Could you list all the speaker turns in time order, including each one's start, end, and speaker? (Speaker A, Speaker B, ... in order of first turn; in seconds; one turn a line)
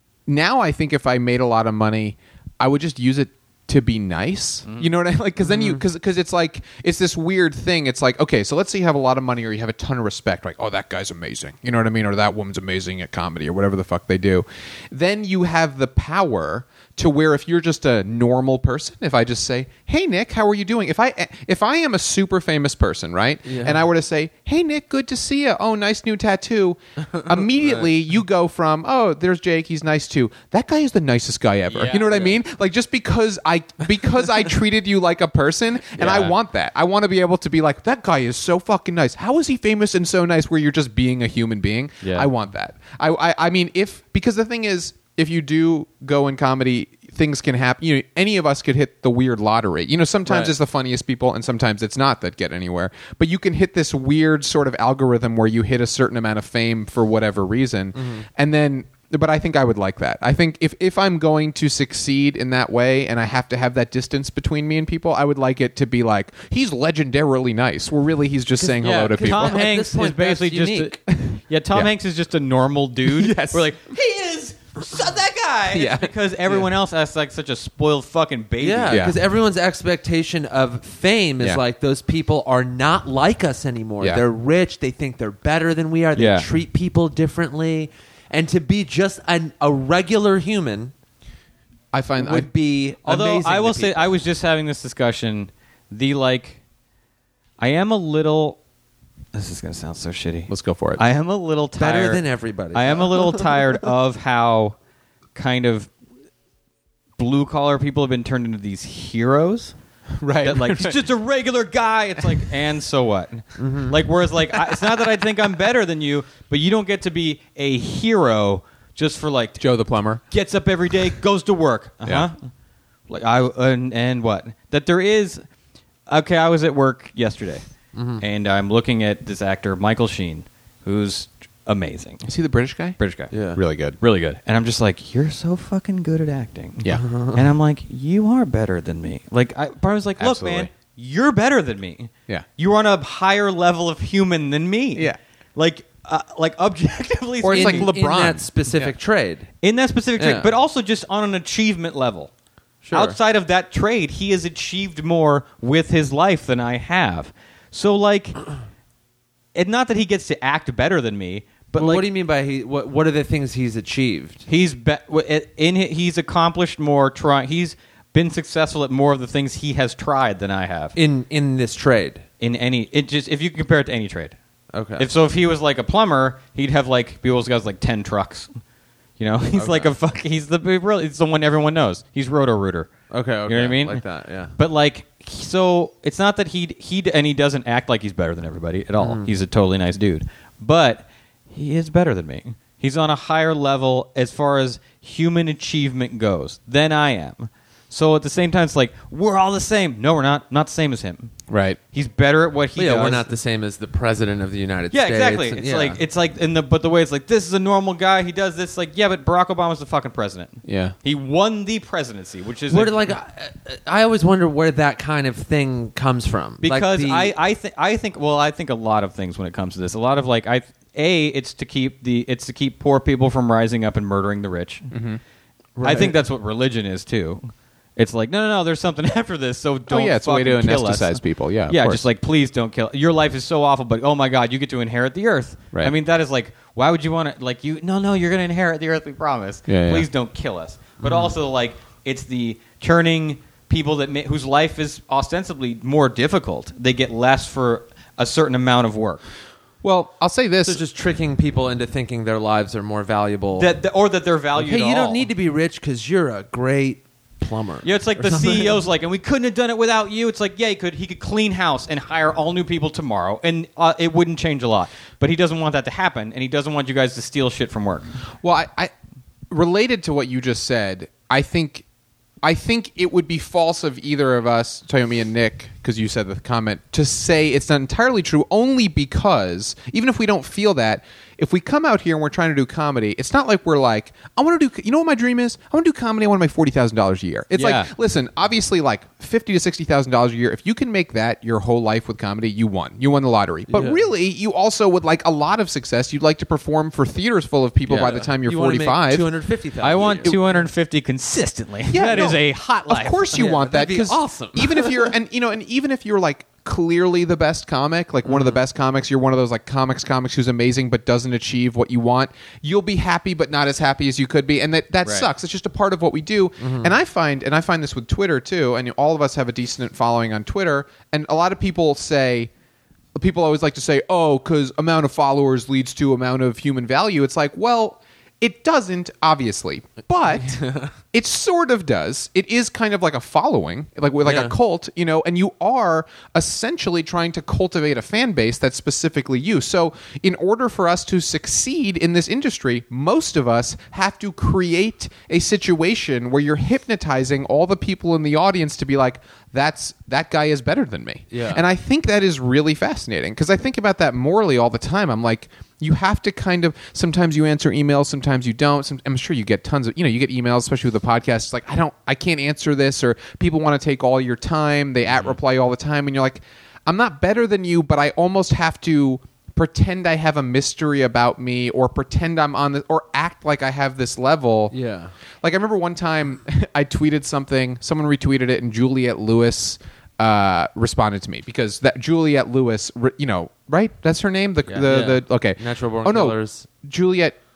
Speaker A: 0.3-69.7
Speaker B: 5.5-5.8
Speaker B: 23.4-23.8
Speaker B: 27.2-27.8
Speaker C: 31.7-32.3
Speaker C: 36.0-36.4
Speaker C: 42.0-42.3
Speaker B: 58.0-58.2
Speaker B: 68.6-71.0
Speaker C: 68.8-79.1
Speaker A: 71.2-71.9
Speaker A: 73.0-73.7
Speaker A: 75.7-76.1
Speaker B: 78.6-90.9
Speaker A: 78.9-79.2
Speaker C: 86.2-86.5
Speaker A: 91.9-92.5
Speaker B: 92.2-94.1
Speaker C: 93.0-96.6
Speaker C: 97.6-98.6
Speaker C: 99.3-104.8
Speaker A: 100.5-101.0
Speaker B: 101.8-103.5
Speaker C: 105.3-105.9
Speaker C: 107.2-109.7
Speaker A: 110.2-111.0
Speaker C: 110.4-119.7
Speaker B: 113.6-114.0
Speaker A: 114.5-115.0
Speaker A: 119.6-120.2
Speaker C: 120.3-122.5
Speaker C: 123.1-125.4
Speaker C: 126.1-127.6
Speaker B: 127.9-128.2
Speaker C: 128.2-132.3
Speaker A: 132.3-133.0
Speaker C: 133.0-133.3
Speaker B: 133.3-133.6
Speaker A: 133.5-134.0
Speaker C: 134.0-147.9
Speaker B: 136.9-137.4
Speaker A: 140.2-140.7
Speaker A: 147.4-148.9
Speaker B: 147.5-149.5
Speaker C: 149.6-152.3
Speaker B: 150.2-150.5
Speaker B: 152.8-153.2
Speaker C: 152.9-158.5
Speaker C: 159.6-162.1
Speaker B: 161.8-164.4
Speaker C: 164.5-171.0
Speaker B: 171.0-172.2
Speaker C: 172.4-174.4
Speaker B: 174.7-175.1
Speaker C: 175.0-178.5
Speaker C: 179.2-182.9
Speaker B: 179.5-179.9
Speaker B: 183.1-184.5
Speaker C: 183.5-184.0
Speaker C: 184.6-201.3
Speaker B: 189.0-189.3
Speaker A: 201.5-201.8
Speaker C: 201.9-203.3
Speaker B: 202.8-206.0
Speaker C: 204.9-213.1
Speaker A: 210.7-210.9
Speaker B: 212.7-217.3
Speaker C: 216.6-224.9
Speaker A: 224.9-225.2
Speaker B: 225.8-226.2
Speaker C: 225.8-249.2
Speaker A: 229.9-232.0
Speaker A: 239.7-240.1
Speaker A: 249.8-250.8
Speaker B: 250.7-253.7
Speaker C: 253.6-255.2
Speaker B: 254.6-258.7
Speaker C: 257.8-268.2
Speaker A: 268.4-268.9
Speaker A: 269.5-271.9
Speaker A: 272.4-299.3
Speaker C: 287.5-287.9
Speaker B: 293.7-294.0
Speaker B: 297.9-300.6
Speaker C: 299.8-303.3
Speaker A: 301.9-322.5
Speaker B: 303.3-305.1
Speaker B: 308.3-308.6
Speaker B: 316.6-316.9
Speaker A: 323.2-374.7
Speaker B: 330.4-330.9
Speaker B: 334.2-334.6
Speaker B: 351.3-351.6
Speaker B: 374.7-375.1
Speaker A: 375.4-387.4
Speaker B: 384.7-386.7